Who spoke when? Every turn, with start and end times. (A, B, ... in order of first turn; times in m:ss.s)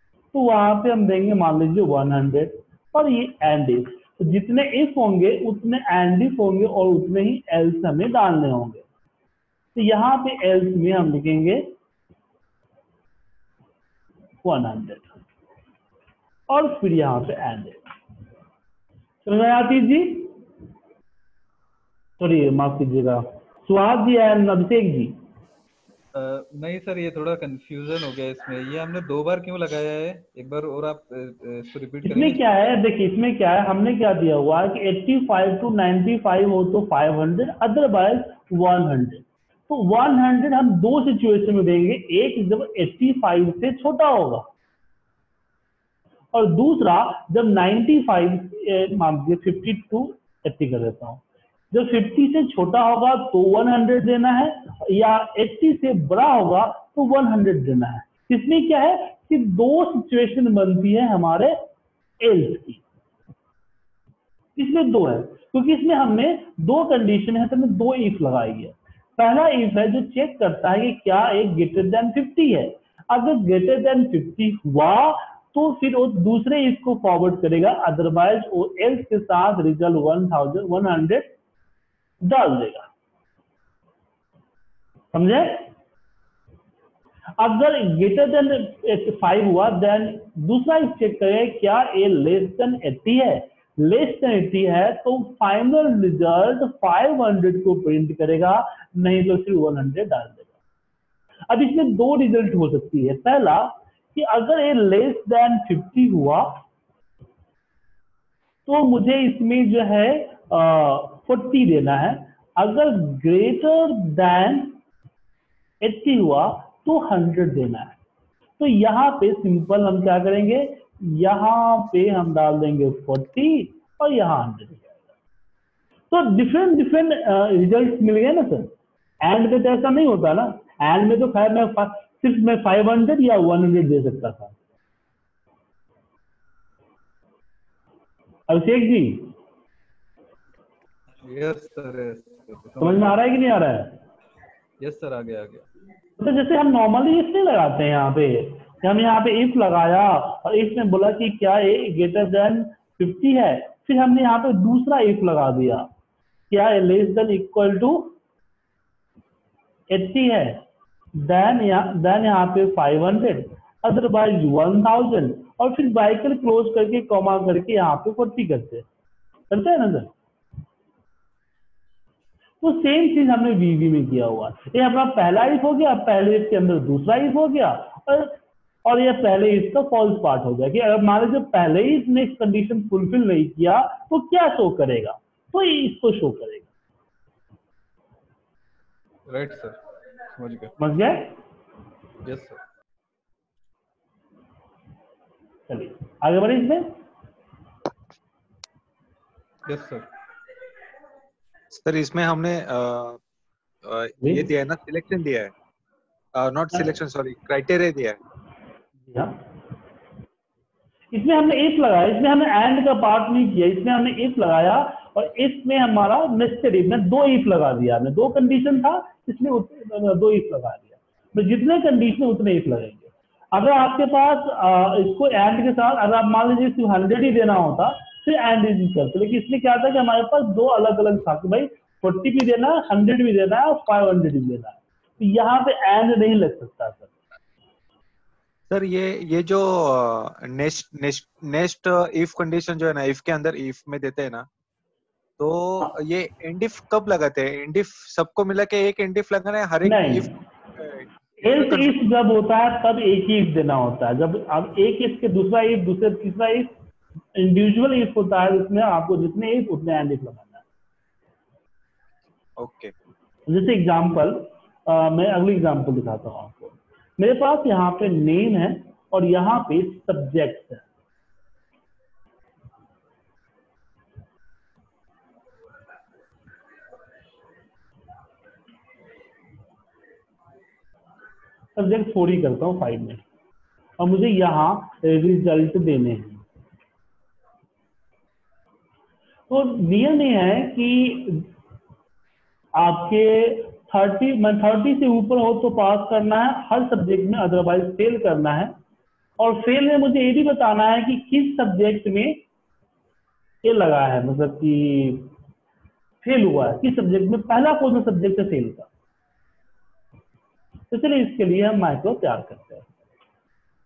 0:00.3-0:08.8 A
0:09.7-0:11.7 A
0:14.4-0:15.1 A
0:16.5-0:17.8 A
0:19.2-0:20.3 A
0:22.2-0:25.2 A
0:26.1-0:32.4 B
0:32.0-0:44.4 A
0:46.3-1:01.6 A
1:02.2-1:02.8 A
1:04.6-1:21.3 A
1:22.2-1:22.9 A
1:25.1-1:25.7 A
1:27.4-1:40.4 A
1:41.5-1:46.6 A
1:48.7-1:54.8 A
1:55.8-1:58.0 A
1:58.6-2:04.9 A
2:06.1-2:14.5 A
2:18.5-2:19.3 A
2:21.2-2:23.2 B
2:22.8-2:24.0 A
2:24.8-2:25.7 B
2:26.2-2:35.9 A
2:36.5-2:38.1 A
2:39.9-2:40.6 A
2:41.2-2:48.8 A
2:49.5-2:50.1 A
2:52.6-3:06.7 A
3:09.3-3:09.8 B
3:10.3-3:10.7 B
3:10.8-3:11.3 A
3:12.2-3:12.6 B
3:15.7-3:16.9 A
3:19.6-3:20.1 B
3:21.7-3:23.2 C
3:23.8-3:25.5 C
3:26.3-3:28.2 C
3:29.1-3:29.4 A
3:31.1-3:57.1 A
3:58.7-4:04.5 C
4:05.4-4:12.0 C
4:09.8-4:10.3 A
4:11.4-4:16.7 A
4:17.3-4:20.6 A
4:22.6-4:22.9 C
4:23.5-4:30.8 A
4:41.8-4:43.2 A
4:44.0-4:46.4 A
4:49.5-4:51.5 A
4:52.7-4:58.7 A
4:59.4-5:02.4 A
5:03.6-5:05.3 A
5:06.2-5:08.9 A
5:10.9-5:12.9 A